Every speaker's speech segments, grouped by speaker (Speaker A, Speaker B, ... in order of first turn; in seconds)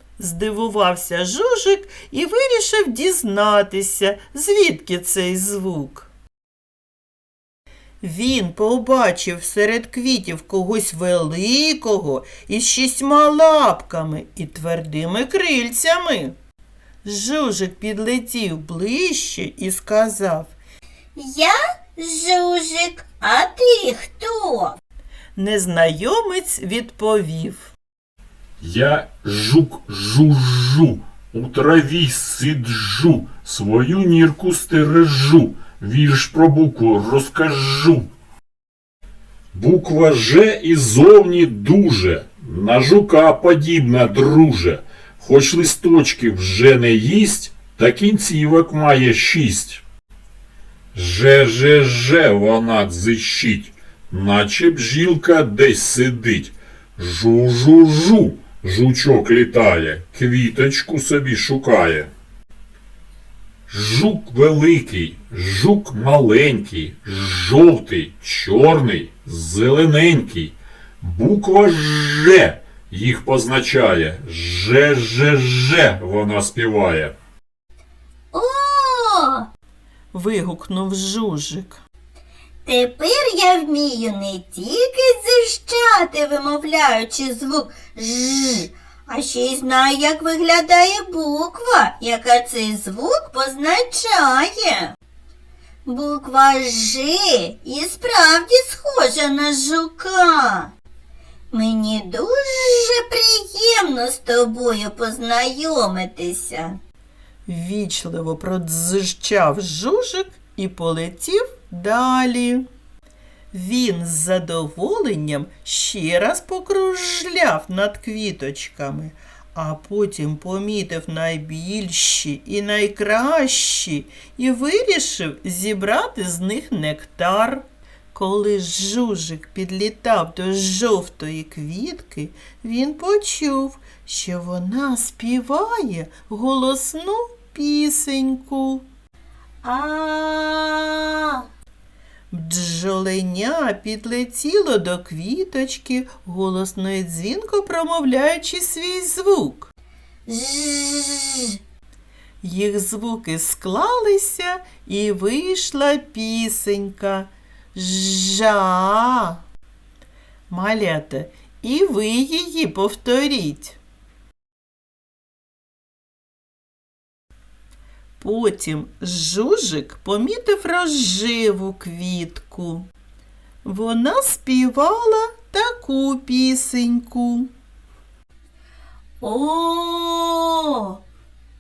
Speaker A: 0.2-6.1, 8.0-16.3, 17.0-20.5, 25.4-27.7, 80.1-81.8, 107.5-112.6, 113.5-138.8, 142.3-149.7, 152.4-159.4, 160.5-163.8, 168.2-172.9, 173.6-177.5
Speaker B: 21.1-24.8, 78.3-79.5, 82.7-94.9, 95.8-100.7, 101.5-106.8, 139.6-141.3, 150.3-151.5, 179.2-181.0
Speaker C: 28.6-38.1, 39.5-49.8, 50.9-62.1, 63.7-77.1